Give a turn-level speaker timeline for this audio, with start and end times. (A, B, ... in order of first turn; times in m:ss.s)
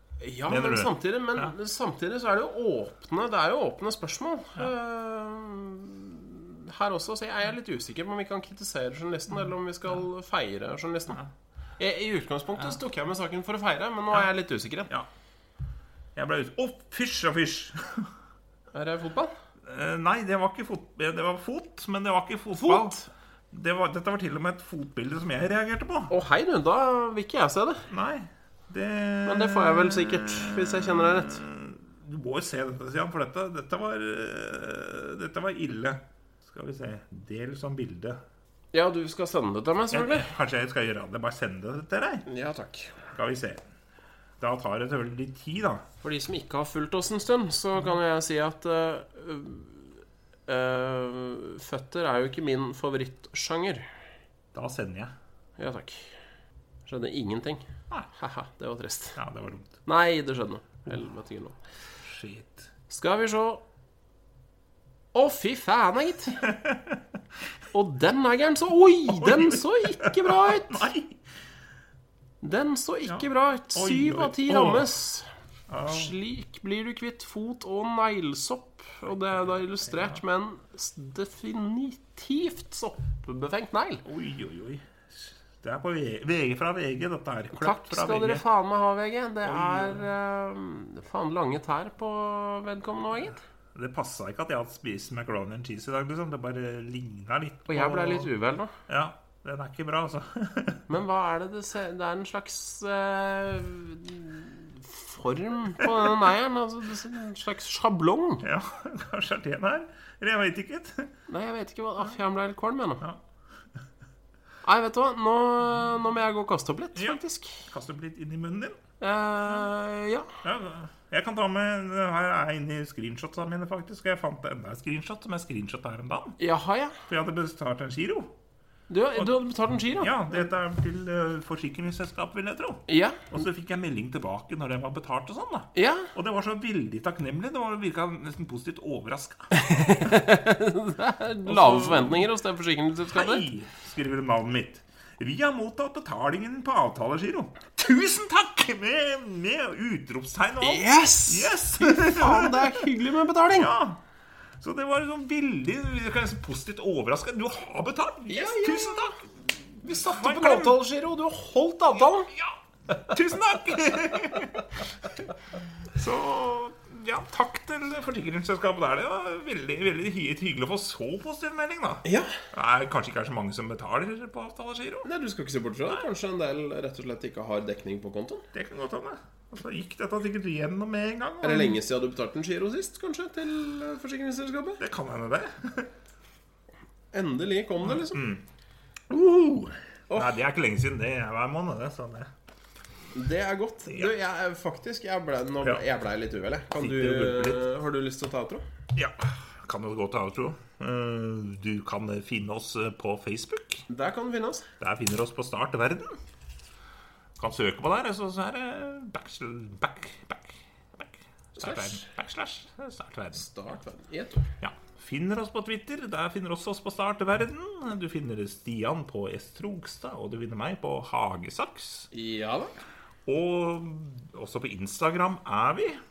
0:00.2-0:11.2 A
0:00.5-0:01.5 B
0:11.8-0:14.9 A
0:16.2-0:18.1 B
0:18.7-0:19.3 A
0:19.7-0:23.0 B
0:22.6-0:23.1 A
0:23.5-0:26.1 B
0:26.1-0:27.9 A
0:27.9-0:38.2 B
0:29.2-0:31.4 A
0:38.7-0:40.3 A
0:39.9-0:42.3 B
0:42.3-0:43.0 A
0:43.1-0:43.6 B
0:44.4-0:45.9 B
0:46.0-0:53.9 A
0:54.5-0:55.1 B
0:55.6-0:56.2 A
0:56.9-0:59.2 A
0:59.2-0:59.8 B
0:59.9-1:01.6 A
1:02.0-1:02.7 B
1:02.9-1:03.6 A
1:05.1-1:06.5 A
1:06.4-1:07.0 B
1:07.7-1:10.9 A
1:09.1-1:11.2 B
1:12.4-1:15.3 A
1:13.1-1:14.9 B
1:15.7-1:16.1 B
1:15.9-1:24.0 A
1:24.0-1:28.4 B
1:27.6-1:33.4 A
1:29.4-1:30.1 B
1:33.8-1:38.3 B
1:37.7-1:38.7 A
1:38.9-1:40.8 B
1:40.9-1:48.4 A
1:48.4-1:51.1 B
1:51.3-1:53.0 A
1:54.6-1:57.7 A
1:57.0-1:58.8 B
1:59.0-2:00.3 A
2:00.4-2:06.4 B
2:06.4-2:07.0 A
2:07.1-2:08.3 B
2:08.9-2:10.3 A
2:10.0-2:20.2 B
2:12.9-2:13.3 A
2:15.8-2:16.1 A
2:19.6-2:23.5 A
2:21.5-2:22.2 B
2:23.1-2:32.9 B
2:30.6-2:33.7 A
2:33.5-2:34.0 B
2:34.6-2:39.1 B
2:38.3-2:39.2 A
2:39.8-2:42.3 A
2:39.9-2:40.8 B
2:42.4-2:45.1 B
2:45.9-2:55.1 B
2:52.0-2:52.4 A
2:55.0-2:58.5 A
2:58.5-3:01.8 B
3:01.4-3:04.8 A
3:04.8-3:05.9 B
3:07.1-3:08.2 A
3:07.8-3:08.4 B
3:09.1-3:12.3 B
3:13.1-3:18.6 A
3:16.8-3:17.7 B
3:19.0-3:23.9 B
3:23.9-3:24.7 A
3:24.8-3:26.2 B
3:27.4-3:33.5 B
3:31.6-3:32.0 A
3:33.4-3:34.5 A
3:34.6-3:42.1 B
3:42.1-3:42.7 A
3:43.3-3:46.0 B